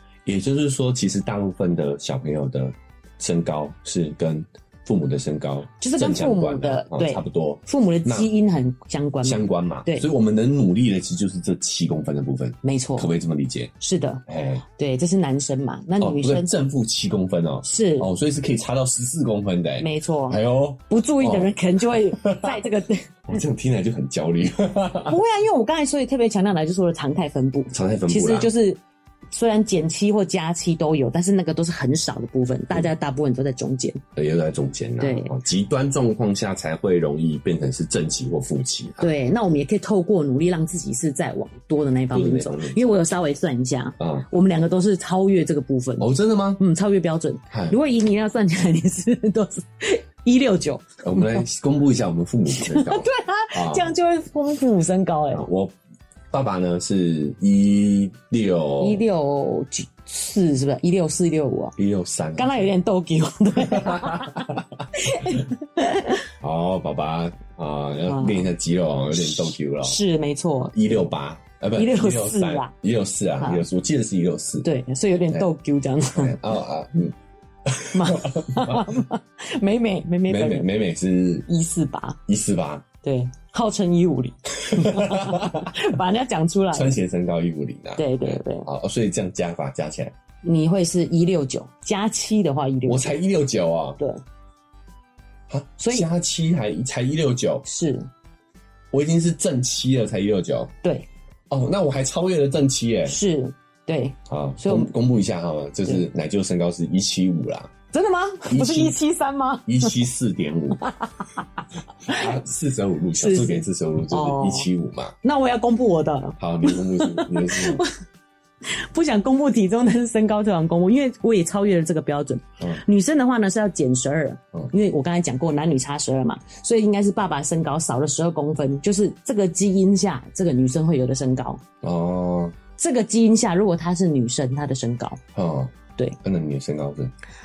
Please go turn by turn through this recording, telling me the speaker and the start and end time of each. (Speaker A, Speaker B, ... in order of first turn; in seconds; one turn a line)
Speaker A: 0.2-8.3
Speaker B: 5.8-10.1
Speaker A: 9.2-13.7
Speaker B: 12.6-13.1
Speaker B: 13.8-16.5
Speaker A: 14.3-14.6
Speaker A: 16.0-22.6
Speaker B: 17.6-18.1
Speaker B: 19.8-23.1
Speaker A: 23.3-25.2
Speaker B: 25.0-34.0
Speaker A: 27.7-28.5
Speaker A: 34.1-39.1
Speaker B: 35.0-35.4
Speaker B: 39.0-51.4
Speaker A: 42.1-42.8
Speaker A: 44.0-44.2
Speaker A: 46.0-46.6
Speaker A: 47.5-47.8
Speaker A: 51.0-53.9
Speaker B: 52.5-55.5
Speaker A: 55.3-55.7
Speaker A: 56.3-59.0
Speaker B: 58.8-61.7
Speaker A: 61.8-62.7
Speaker B: 62.4-66.3
Speaker A: 63.5-65.4
Speaker A: 66.4-70.0
Speaker B: 68.0-68.5
Speaker B: 69.1-70.9
Speaker A: 70.7-74.7
Speaker B: 71.7-72.7
Speaker B: 74.6-76.4
Speaker A: 76.1-78.9
Speaker B: 77.9-80.7
Speaker A: 80.3-81.5
Speaker B: 81.5-82.2
Speaker A: 82.3-82.8
Speaker B: 83.0-87.0
Speaker A: 84.6-85.9
Speaker A: 86.7-90.1
Speaker B: 88.0-88.7
Speaker B: 90.4-93.2
Speaker A: 92.8-94.0
Speaker A: 95.5-97.7
Speaker B: 95.8-96.0
Speaker B: 97.6-98.1
Speaker A: 98.9-100.7
Speaker A: 101.5-103.2
Speaker B: 103.0-104.9
Speaker A: 104.3-107.7
Speaker B: 107.9-110.0
Speaker A: 108.5-109.0
Speaker A: 109.6-110.8
Speaker B: 110.8-111.4
Speaker B: 112.0-112.3
Speaker A: 112.0-115.1
Speaker B: 113.2-114.7
Speaker B: 115.2-117.9
Speaker A: 116.4-117.8
Speaker B: 118.6-131.6
Speaker A: 131.8-132.6
Speaker B: 132.8-135.2
Speaker A: 135.3-137.1